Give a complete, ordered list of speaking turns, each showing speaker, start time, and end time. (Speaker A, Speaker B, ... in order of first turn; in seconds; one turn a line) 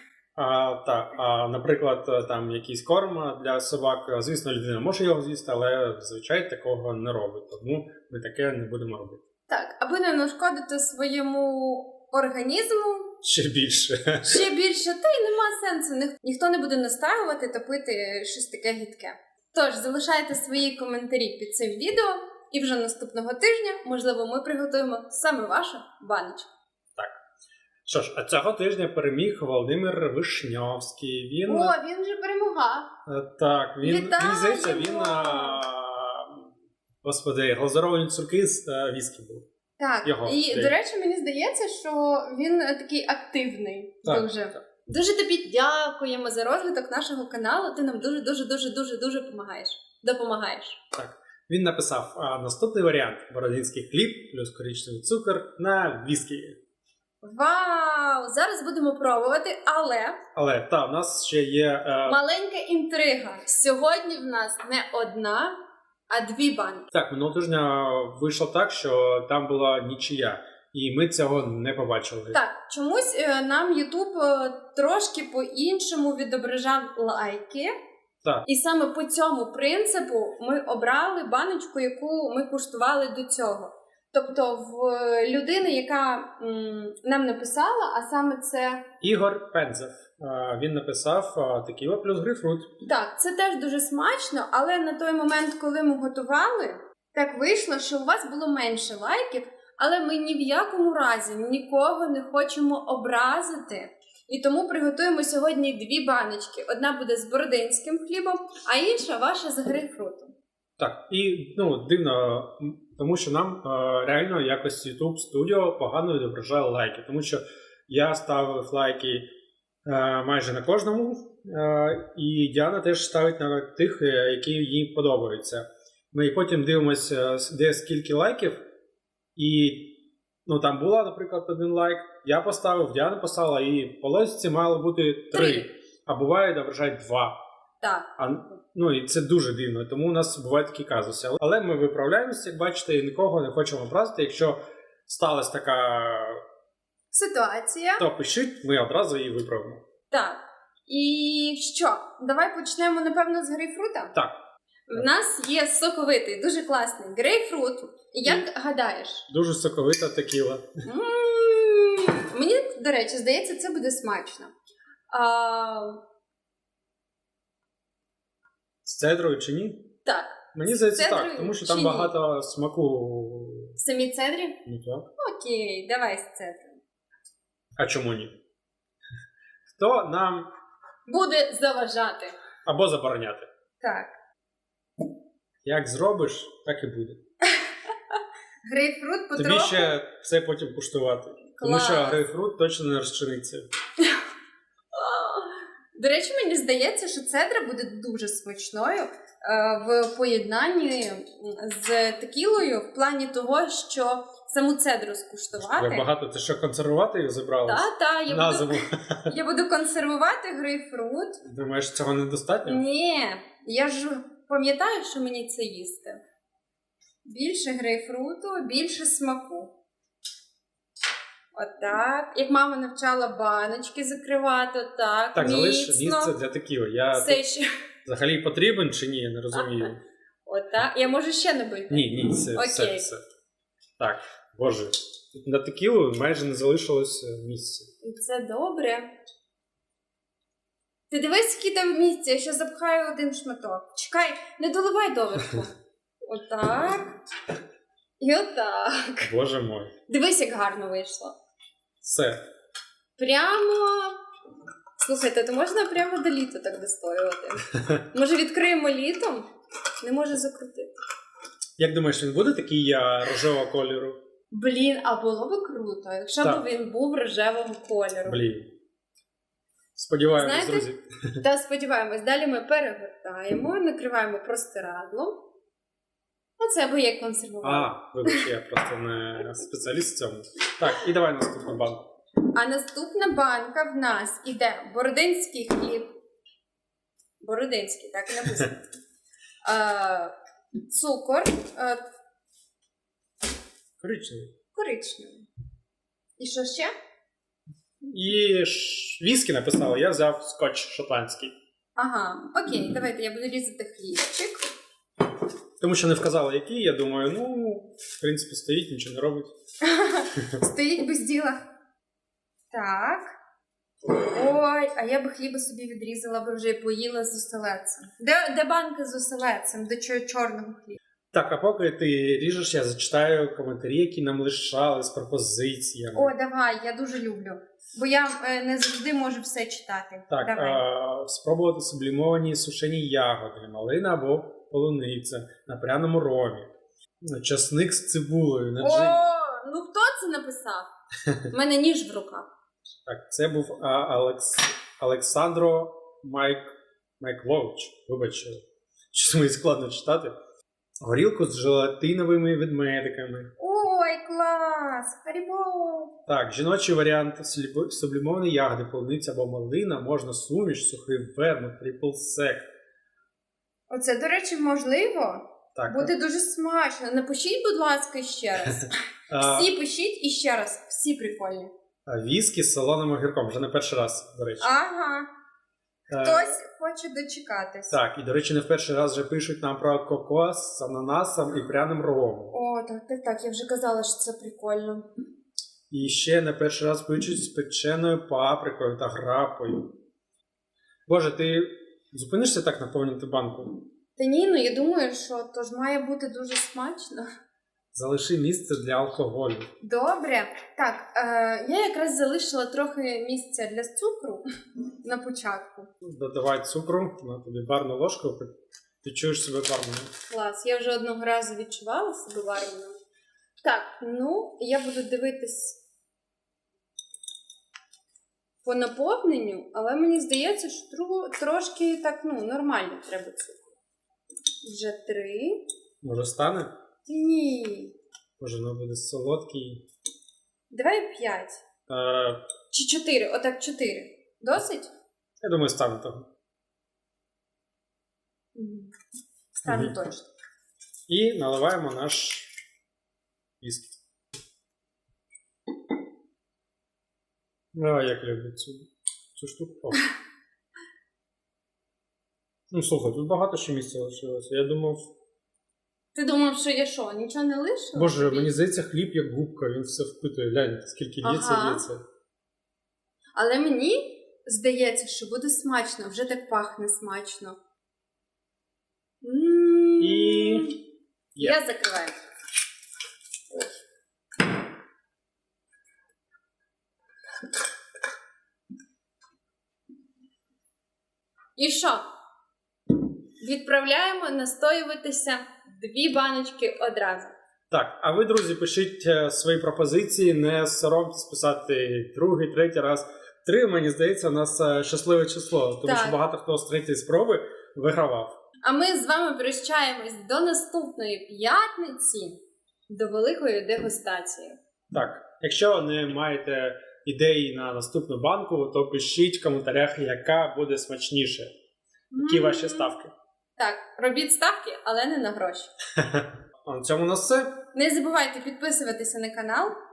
Speaker A: 0.3-9.2
Speaker B: 9.5-13.1
Speaker A: 13.2-14.4
Speaker B: 14.2-26.5
Speaker A: 27.9-31.7
Speaker B: 31.4-32.9
Speaker A: 33.0-36.5
Speaker B: 33.8-35.6
Speaker A: 37.0-39.4
Speaker B: 39.8-50.8
Speaker A: 40.0-40.7
Speaker A: 44.0-44.6
Speaker A: 50.9-56.5
Speaker B: 57.2-60.2
Speaker A: 60.4-62.2
Speaker B: 62.0-65.5
Speaker B: 66.1-66.9
Speaker A: 66.9-72.4
Speaker B: 72.3-77.7
Speaker B: 78.4-88.8
Speaker A: 89.0-92.7
Speaker B: 92.8-110.3
Speaker A: 110.8-119.2
Speaker A: 119.8-128.6
Speaker A: 129.3-137.3
Speaker B: 135.3-135.7
Speaker B: 137.8-138.1
Speaker A: 138.2-146.4
Speaker B: 147.1-148.0
Speaker A: 148.0-149.8
Speaker B: 150.1-154.1
Speaker B: 154.9-159.2
Speaker A: 159.3-160.7
Speaker B: 160.8-164.5
Speaker B: 165.1-166.0
Speaker A: 168.8-169.9
Speaker B: 170.0-172.1
Speaker A: 170.5-173.7
Speaker B: 173.8-174.6
Speaker A: 174.7-175.1
Speaker B: 175.2-176.8
Speaker A: 177.8-178.3
Speaker A: 179.7-180.5
Speaker B: 181.1-182.3
Speaker A: 182.6-183.5
Speaker B: 183.8-184.1
Speaker A: 185.6-187.2
Speaker B: 188.7-189.9
Speaker A: 189.3-193.7
Speaker B: 191.6-192.2
Speaker B: 194.9-206.1
Speaker A: 205.6-209.3
Speaker B: 207.7-211.4
Speaker A: 211.4-212.8
Speaker B: 212.7-216.2
Speaker B: 217.2-219.7
Speaker B: 221.5-226.4
Speaker A: 225.3-227.4
Speaker B: 227.1-227.7
Speaker A: 228.0-230.0
Speaker B: 229.5-229.9
Speaker B: 230.4-233.1
Speaker A: 231.9-233.2
Speaker A: 234.0-237.9
Speaker B: 238.0-239.1
Speaker B: 241.1-245.7
Speaker B: 246.2-247.1
Speaker B: 248.2-249.3
Speaker A: 249.2-249.9
Speaker B: 250.1-251.3
Speaker A: 252.0-252.4
Speaker B: 253.2-254.2
Speaker B: 255.0-259.4
Speaker B: 260.0-261.0
Speaker A: 261.8-264.2
Speaker B: 264.5-268.4
Speaker A: 268.2-268.7
Speaker A: 269.9-271.4
Speaker B: 270.3-270.9
Speaker B: 271.4-275.4
Speaker B: 276.6-278.4
Speaker A: 277.6-282.1
Speaker B: 282.5-286.1
Speaker B: 287.4-288.8
Speaker B: 289.6-290.3
Speaker B: 290.9-292.0
Speaker A: 294.0-294.5
Speaker B: 294.7-295.4
Speaker B: 296.4-296.9
Speaker A: 298.0-301.5
Speaker B: 302.0-304.7
Speaker A: 305.8-309.5
Speaker B: 309.8-311.6
Speaker B: 312.7-313.3
Speaker B: 314.1-321.0
Speaker A: 321.3-326.3
Speaker B: 326.1-330.8
Speaker A: 330.3-336.7
Speaker A: 337.2-339.2
Speaker B: 338.8-340.9
Speaker B: 341.5-342.5
Speaker A: 343.1-348.6
Speaker A: 349.1-350.3
Speaker A: 351.0-353.5
Speaker B: 353.6-356.1
Speaker A: 356.3-362.7
Speaker B: 363.9-371.7
Speaker A: 365.7-366.1
Speaker A: 369.3-369.7
Speaker A: 372.1-374.7
Speaker B: 374.6-375.3
Speaker A: 376.1-376.6
Speaker B: 376.2-378.0
Speaker A: 377.9-382.5
Speaker B: 382.5-385.1
Speaker A: 385.9-389.9
Speaker A: 391.1-393.8
Speaker B: 394.1-397.2
Speaker A: 397.9-399.7
Speaker B: 399.8-404.4
Speaker B: 405.0-405.9
Speaker A: 406.0-408.5
Speaker A: 409.0-410.1
Speaker B: 410.3-412.9
Speaker B: 413.6-415.8
Speaker B: 418.6-423.7
Speaker B: 424.6-425.6
Speaker A: 426.0-426.7
Speaker B: 427.1-427.9
Speaker A: 428.4-429.8
Speaker B: 430.7-431.6
Speaker A: 431.9-432.4
Speaker B: 432.7-434.9
Speaker A: 435.4-436.2
Speaker B: 438.5-438.9
Speaker B: 439.6-440.2
Speaker A: 439.7-439.9
Speaker A: 441.1-442.5
Speaker A: 443.6-444.0
Speaker A: 447.7-450.0
Speaker A: 452.7-455.1
Speaker B: 456.1-458.6
Speaker A: 457.9-462.0
Speaker B: 461.2-461.9
Speaker B: 463.3-467.6
Speaker B: 469.2-470.8
Speaker A: 470.0-470.7
Speaker B: 471.4-472.2
Speaker B: 481.6-482.0
Speaker B: 483.4-487.3
Speaker A: 487.7-498.3
Speaker B: 495.8-496.2
Speaker B: 498.6-504.6
Speaker A: 504.9-511.5
Speaker B: 512.1-512.9
Speaker A: 512.2-513.1
Speaker B: 513.6-515.7
Speaker A: 516.0-517.5
Speaker B: 517.7-519.7